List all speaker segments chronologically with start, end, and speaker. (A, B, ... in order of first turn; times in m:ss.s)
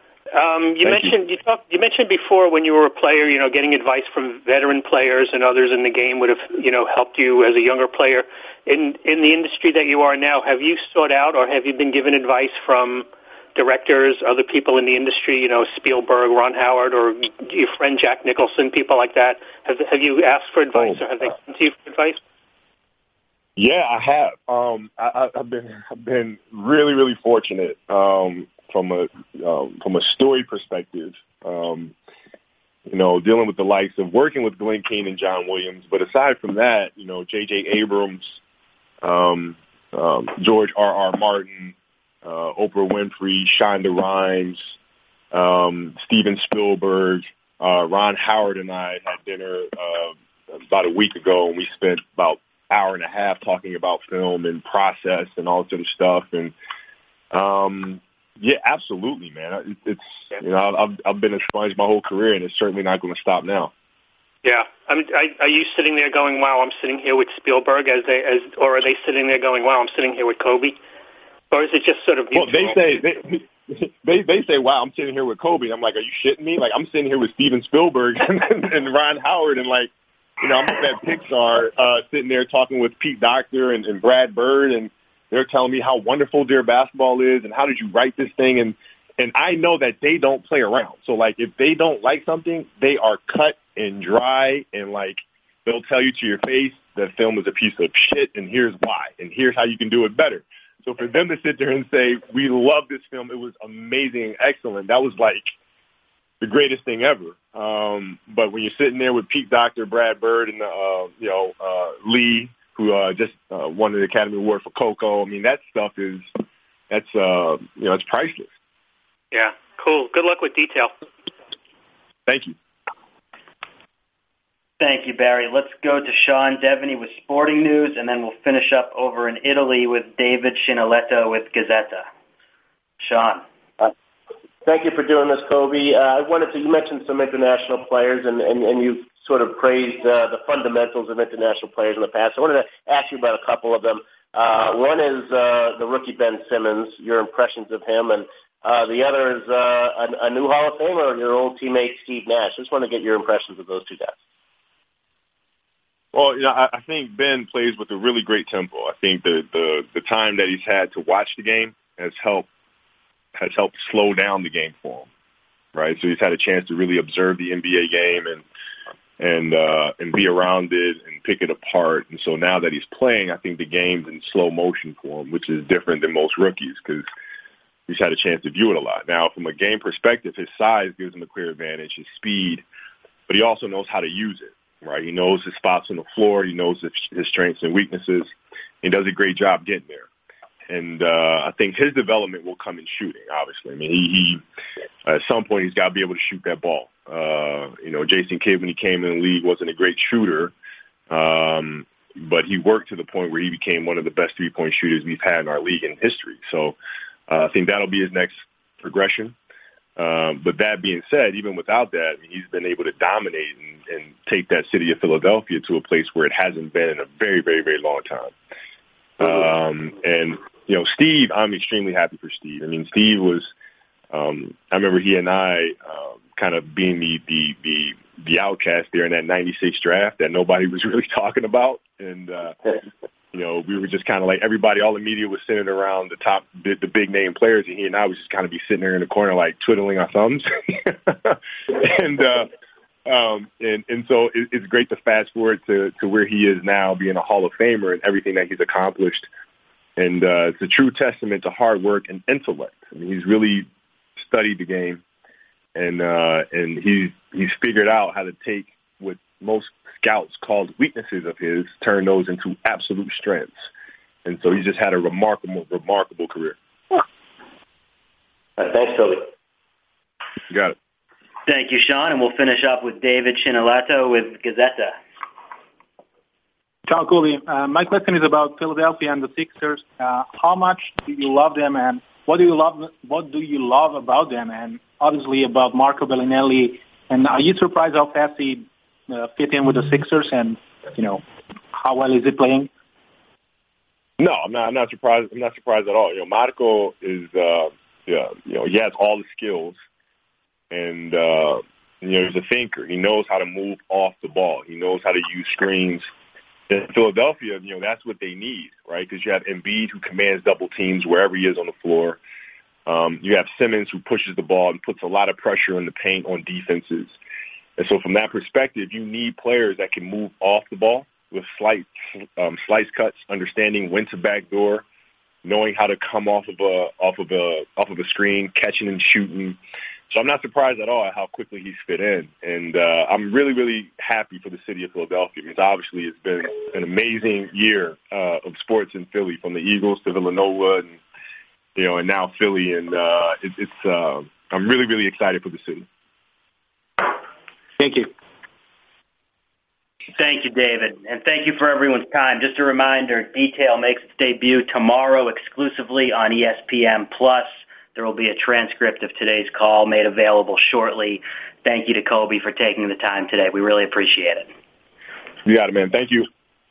0:00.3-0:22.2 A
0:00.8-0:01.1 B
0:23.6-0:31.9 B
0:32.9-0:38.4 B
0:39.0-0:44.7 B
0:45.3-0:56.5 B
0:57.3-1:03.7 B
1:04.4-1:10.8 A
1:11.5-1:13.0 A
1:12.3-1:45.5 B
1:46.4-1:56.3 B
1:56.9-1:58.5 B
1:59.3-2:00.9 A
2:02.2-2:02.6 B
2:04.8-2:12.1 C
2:13.0-2:13.4 C
2:14.6-2:34.1 D
2:36.1-2:42.5 B
2:43.3-2:45.1 B
2:45.7-2:48.4 B
2:49.2-2:57.0 B
2:57.9-3:02.6 B
3:03.3-3:10.1 B
3:10.7-3:14.4 B
3:15.0-3:20.5 B
3:21.1-3:26.8 B
3:27.3-3:29.3 B
3:30.0-3:38.3 B
3:39.2-3:43.5 B
3:44.1-3:52.7 B
3:53.3-4:02.5 B
4:03.0-4:09.3 B
4:10.0-4:15.0 B
4:15.7-4:23.7 B
4:24.2-4:26.6 B
4:28.6-4:29.2 D
4:30.5-4:30.8 B
4:31.5-4:35.0 C
4:36.9-4:51.2 E
4:51.7-4:52.7 E
4:54.2-4:59.8 B
5:00.7-5:06.1 B
5:06.7-5:12.2 B
5:12.8-5:17.2 B
5:17.8-5:24.8 B
5:25.4-5:41.0 B
5:41.8-5:45.9 B
5:50.2-6:04.5 C
6:05.4-6:06.3 B